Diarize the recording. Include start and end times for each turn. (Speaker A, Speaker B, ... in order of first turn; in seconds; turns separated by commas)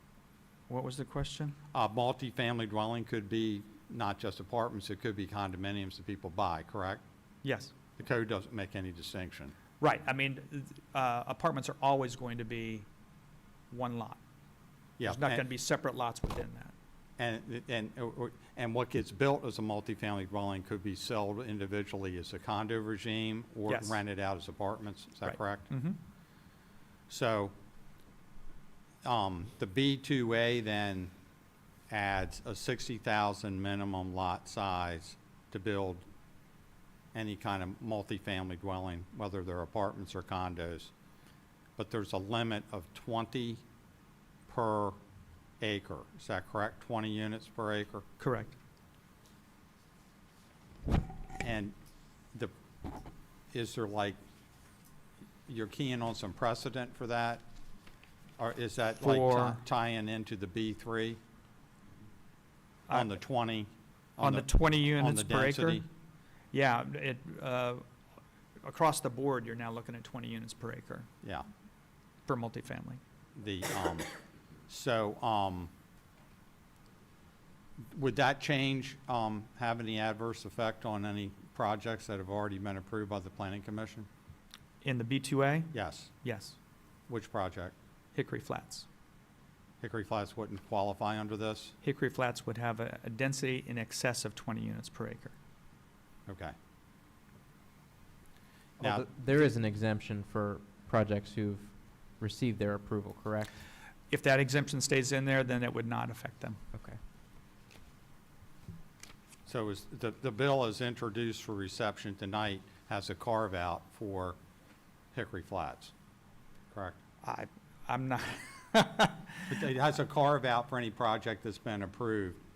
Speaker A: 0.7-1.6, Speaker B: 1.7-7.0, Speaker A: 7.4-7.7, Speaker B: 8.0-9.6, Speaker A: 9.8-12.9, Speaker A: 13.7-14.2, Speaker B: 15.0-15.4, Speaker A: 15.0-16.7, Speaker B: 17.2-25.7, Speaker A: 23.7-24.0, Speaker A: 25.2-26.0, Speaker B: 27.1-27.5, Speaker B: 29.0-31.1, Speaker B: 31.9-36.1, Speaker B: 37.1-40.9, Speaker B: 41.8-43.6, Speaker B: 44.5-45.0, Speaker B: 45.6-48.1, Speaker A: 48.2-48.5, Speaker B: 51.4-51.7, Speaker B: 53.5-54.2, Speaker B: 55.5-57.4, Speaker B: 58.4-61.2, Speaker A: 59.0-59.6, Speaker A: 62.9-63.1, Speaker B: 62.9-65.8, Speaker A: 64.2-65.8, Speaker A: 66.5-67.8, Speaker A: 68.6-71.1, Speaker A: 72.3-73.0, Speaker B: 73.3-74.1, Speaker B: 74.7-75.7, Speaker B: 77.9-84.1, Speaker A: 84.8-86.5, Speaker B: 85.7-86.1, Speaker B: 87.1-87.7, Speaker A: 88.1-88.8, Speaker B: 89.8-91.7, Speaker A: 91.8-95.3, Speaker B: 96.3-96.5, Speaker C: 98.8-103.5, Speaker B: 98.8-99.0, Speaker A: 104.1-106.6, Speaker C: 106.7-107.0, Speaker B: 109.5-114.4, Speaker B: 115.1-115.9, Speaker B: 116.7-117.0, Speaker A: 117.2-119.5, Speaker B: 119.5-122.4